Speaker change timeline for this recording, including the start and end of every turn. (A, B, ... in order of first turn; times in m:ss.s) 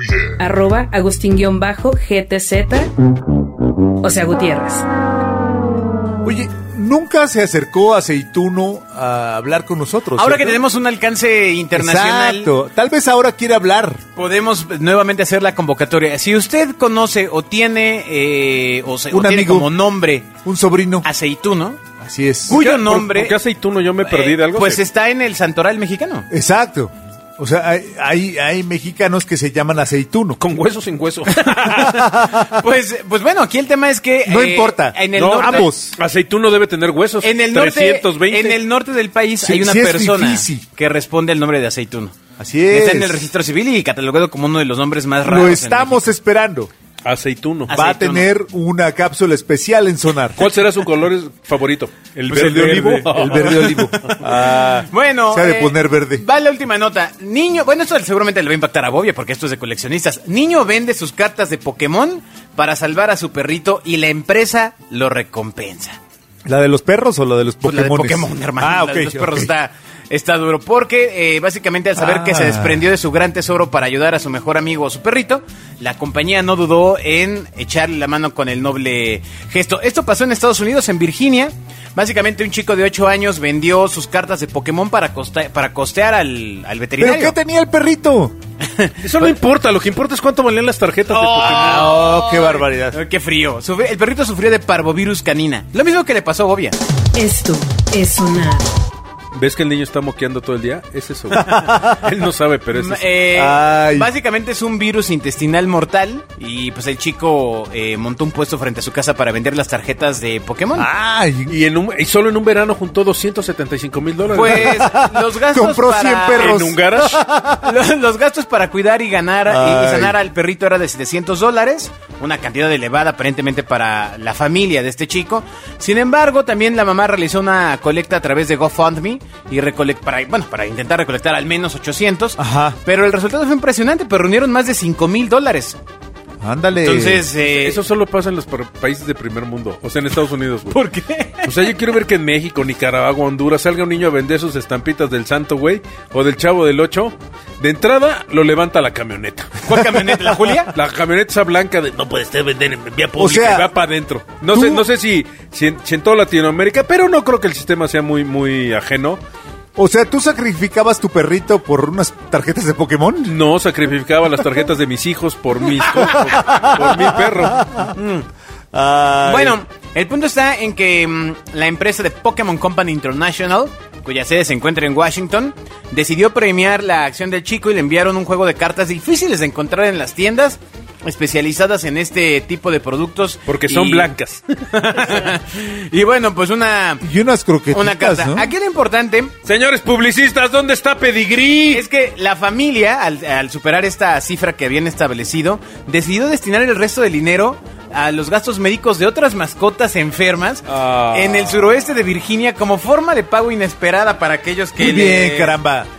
0:00.4-0:02.9 A
0:04.0-0:04.8 A
0:06.2-0:10.6 B
0:10.2-0:12.5 C
0:11.7-0:14.0 B
0:14.2-0:20.4 C
0:19.1-0:19.7 B
0:20.4-0:21.1 B
0:21.0-0:21.8 C
0:22.0-0:22.6 B
0:22.5-0:23.4 C
0:22.5-0:24.8 D
0:24.0-0:26.3 C
0:26.3-0:30.4 B
0:30.4-0:32.1 D
0:31.6-0:32.4 B
0:32.4-0:35.7 C
0:34.2-0:35.9 B
0:35.1-0:38.6 D
0:37.2-0:42.2 C
0:39.4-0:40.6 B
0:42.4-0:43.2 B
0:42.7-0:46.1 C
0:45.2-0:46.7 B
0:47.0-0:47.8 D
0:47.7-0:48.3 C
0:47.7-0:50.4 B
0:50.4-0:54.1 D
0:52.3-0:56.2 B
0:52.3-1:06.0 C
1:06.4-1:09.5 B
1:07.6-1:27.4 C
1:12.0-1:12.8 B
1:27.0-1:28.3 B
1:28.6-1:29.3 C
1:29.0-1:31.9 D
1:31.1-1:36.8 C
1:31.6-1:33.0 B
1:37.1-1:38.7 A
1:39.3-1:43.0 D
1:41.3-1:42.0 B
1:42.7-1:50.9 C
1:43.3-1:44.1 B
1:50.7-1:51.6 B
1:51.5-1:54.8 D
1:54.3-1:56.8 C
1:54.5-1:57.7 B
1:56.4-1:57.2 D
1:57.6-2:15.8 C
1:59.5-2:00.2 B
2:12.4-2:12.8 B
2:16.4-2:17.2 B
2:16.8-2:17.8 C
2:17.4-2:20.8 D
2:20.7-2:21.6 C
2:21.4-2:29.6 D
2:29.6-2:30.7 C
2:30.7-2:39.2 D
2:33.2-2:33.7 B
2:34.5-2:34.9 B
2:39.8-2:43.3 B
2:43.3-2:48.2 D
2:46.1-2:47.9 B
2:48.7-2:49.6 B
2:49.2-3:04.1 C
3:03.5-3:05.3 D
3:04.7-3:07.0 C
3:07.0-3:08.5 B
3:07.7-3:09.3 C
3:09.4-3:11.8 D
3:11.7-3:25.6 C
3:20.7-3:21.5 D
3:24.8-3:25.9 B